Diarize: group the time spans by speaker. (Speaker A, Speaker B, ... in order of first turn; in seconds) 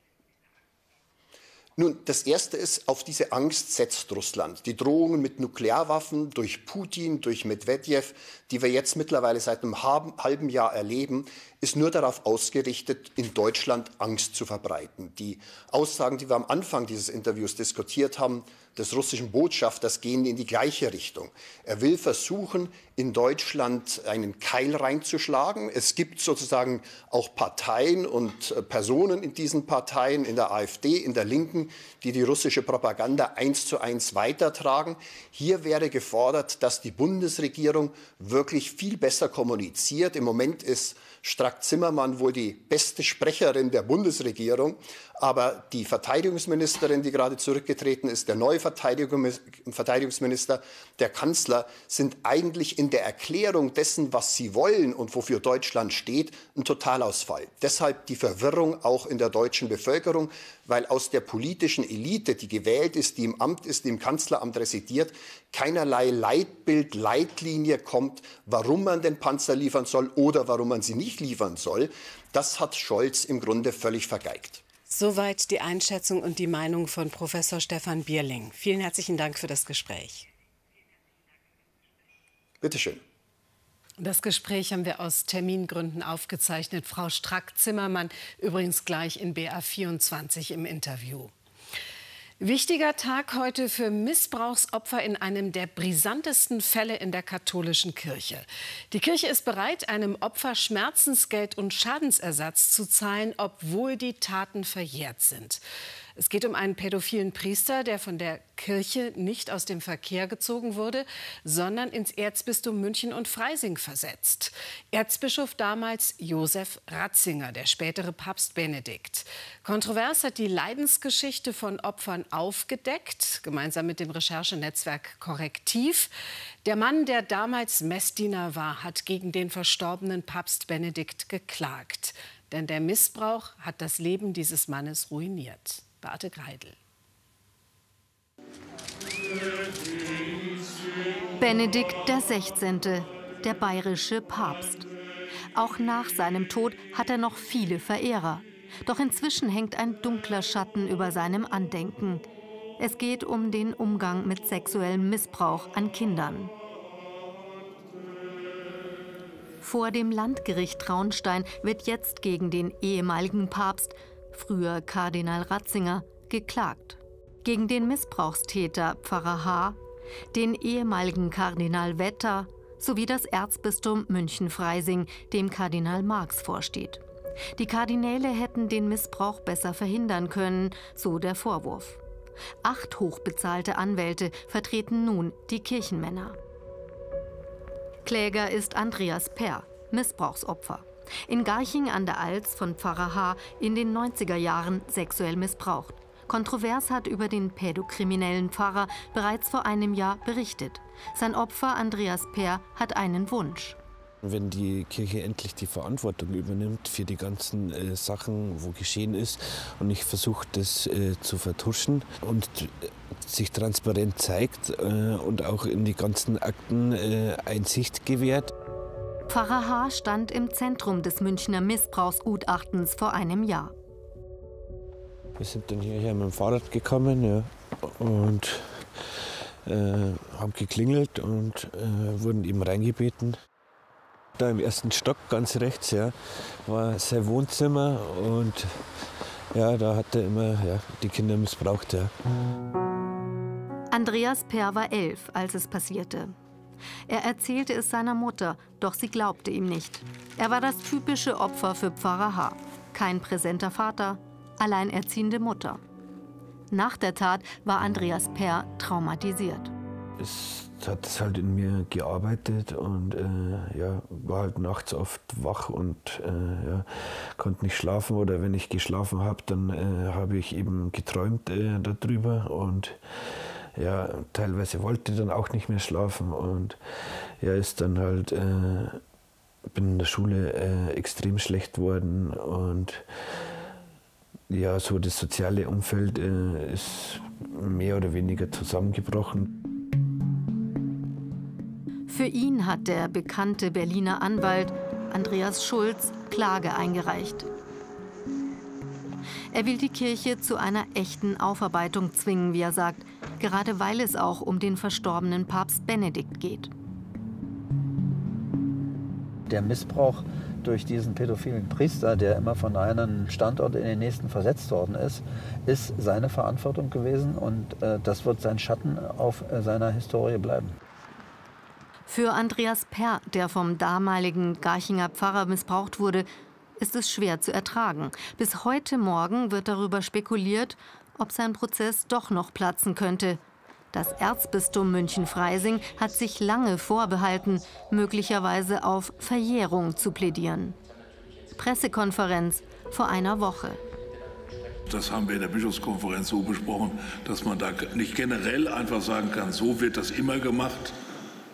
Speaker A: 1.8-74.6, 82.6-83.0
Speaker B: 74.9-80.3, 84.0-91.3, 92.4-105.6, 106.2-126.1, 126.6-136.8
Speaker C: 141.4-144.9, 145.5-152.2, 152.8-156.5, 159.6-169.8, 170.3-177.0, 177.6-182.0, 182.6-186.4, 188.0-203.8, 219.3-223.7, 243.9-246.3, 247.1-255.8, 256.7-259.7, 292.1-297.4, 299.5-306.7, 322.1-333.4, 333.9-340.8, 341.5-343.8
Speaker D: 204.2-218.5, 225.4-233.4, 234.4-242.1, 260.2-276.8, 277.4-279.0, 279.7-283.1, 284.5-289.4
Speaker E: 309.5-320.8
Speaker F: 344.9-351.0